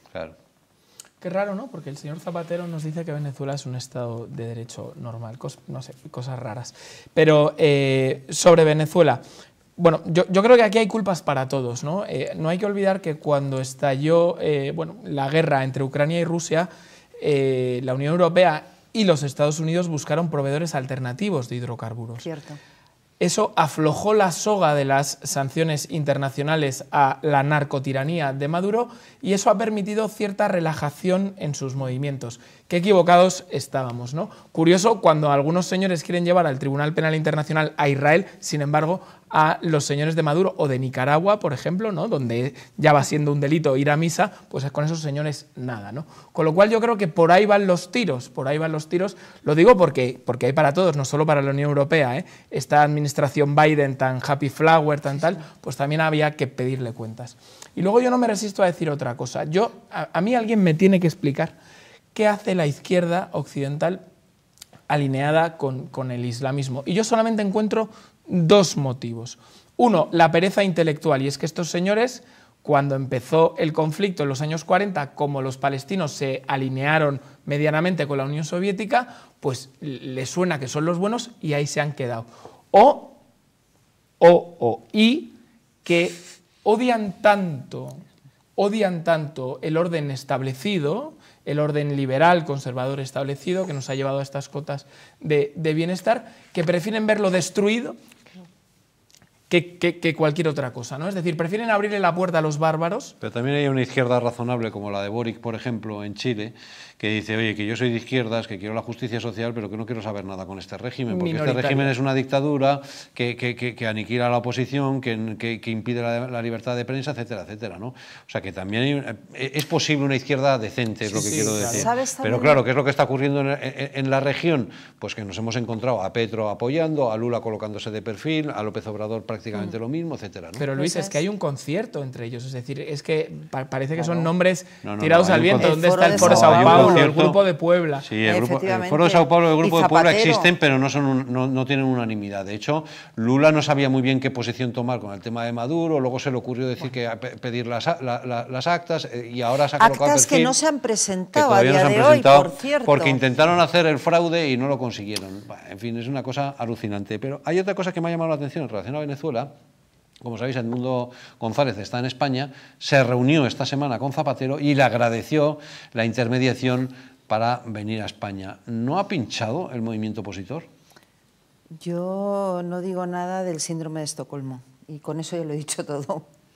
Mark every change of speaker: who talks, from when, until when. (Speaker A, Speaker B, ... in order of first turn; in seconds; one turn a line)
Speaker A: 1.2-9.2
Speaker A: 9.8-22.2
Speaker B: 22.2-22.6
Speaker A: 23.2-61.5
Speaker A: 62.1-64.0
Speaker A: 64.9-83.2
Speaker A: 84.2-88.0
Speaker A: 88.6-98.0
Speaker A: 99.5-103.1
Speaker C: 103.2-130.6
Speaker A: 111.1-111.9
Speaker A: 121.1-121.9
Speaker B: 121.2-122.6
Speaker A: 130.6-138.0
Speaker B: 130.7-131.2
Speaker B: 133.9-134.3
Speaker C: 134.8-137.4
Speaker B: 135.6-137.2
Speaker C: 138.0-150.5
Speaker B: 138.2-140.5
Speaker B: 149.8-153.2
Speaker C: 151.3-159.5
Speaker C: 160.2-170.7
Speaker B: 171.8-176.2